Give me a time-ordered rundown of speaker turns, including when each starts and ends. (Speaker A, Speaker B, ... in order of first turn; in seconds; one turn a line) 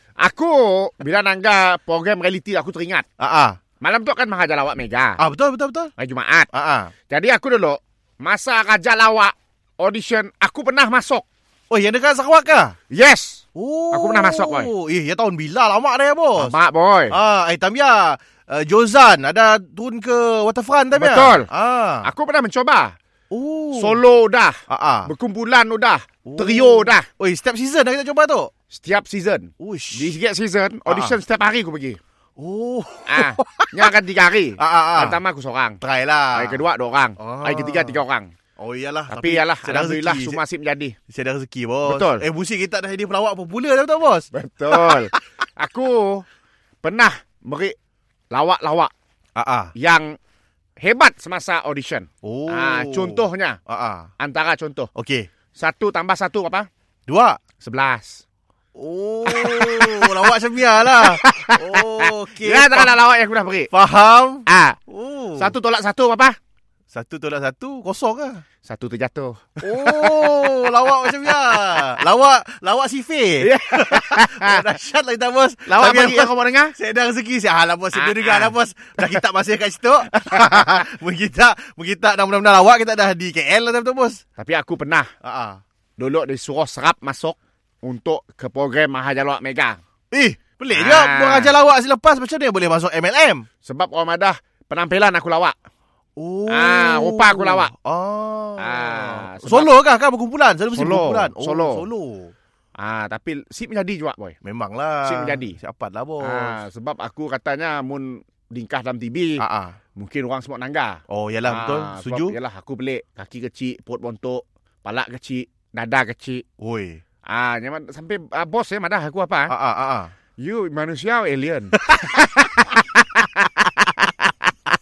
Speaker A: 0.2-3.1
Speaker B: 3.2-3.6
Speaker A: 3.8-5.2
Speaker B: 5.2-5.9
Speaker A: 6.0-6.5
Speaker B: 6.5-6.9
Speaker A: 7.1-11.3
Speaker B: 11.7-12.8
Speaker A: 12.9-14.7
Speaker B: 13.6-16.5
Speaker A: 16.4-17.2
Speaker B: 17.1-22.1
Speaker A: 21.0-21.5
Speaker A: 22.0-23.0
Speaker B: 23.3-24.0
Speaker A: 23.8-27.1
Speaker B: 24.7-25.1
Speaker B: 26.2-28.5
Speaker A: 28.7-32.0
Speaker B: 29.6-30.1
Speaker B: 30.9-31.2
Speaker B: 32.4-33.9
Speaker A: 33.1-35.8
Speaker B: 34.6-35.2
Speaker B: 35.8-36.6
Speaker A: 36.3-38.3
Speaker B: 37.2-38.0
Speaker B: 38.6-40.4
Speaker A: 39.1-41.0
Speaker B: 41.1-45.2
Speaker A: 41.9-42.2
Speaker A: 44.3-46.2
Speaker A: 46.8-47.8
Speaker A: 48.3-48.9
Speaker B: 49.4-49.7
Speaker A: 49.8-50.2
Speaker A: 50.8-53.6
Speaker B: 52.2-54.1
Speaker A: 54.2-54.9
Speaker B: 55.0-55.3
Speaker A: 55.6-56.7
Speaker B: 57.1-57.4
Speaker A: 57.6-58.2
Speaker B: 58.8-63.0
Speaker A: 59.3-60.3
Speaker A: 60.8-63.7
Speaker B: 63.7-65.5
Speaker A: 64.5-64.8
Speaker A: 65.4-66.4
Speaker B: 66.9-68.4
Speaker A: 68.6-72.0
Speaker B: 69.6-84.2
Speaker A: 73.4-74.7
Speaker A: 75.7-76.8
Speaker A: 77.9-78.5
Speaker A: 80.1-80.9
Speaker A: 84.4-85.1
Speaker B: 85.2-85.6
Speaker A: 86.0-89.8
Speaker B: 90.1-93.5
Speaker A: 90.7-91.5
Speaker A: 93.6-95.5
Speaker B: 96.2-102.3
Speaker A: 96.5-97.7
Speaker A: 98.6-99.7
Speaker A: 100.7-101.9
Speaker A: 102.8-104.4
Speaker B: 104.4-106.6
Speaker A: 105.1-105.6
Speaker A: 106.2-109.4
Speaker B: 109.4-109.8
Speaker A: 110.0-116.5
Speaker B: 111.1-112.4
Speaker B: 116.6-117.0
Speaker A: 117.3-119.5
Speaker B: 119.5-120.1
Speaker A: 120.4-124.1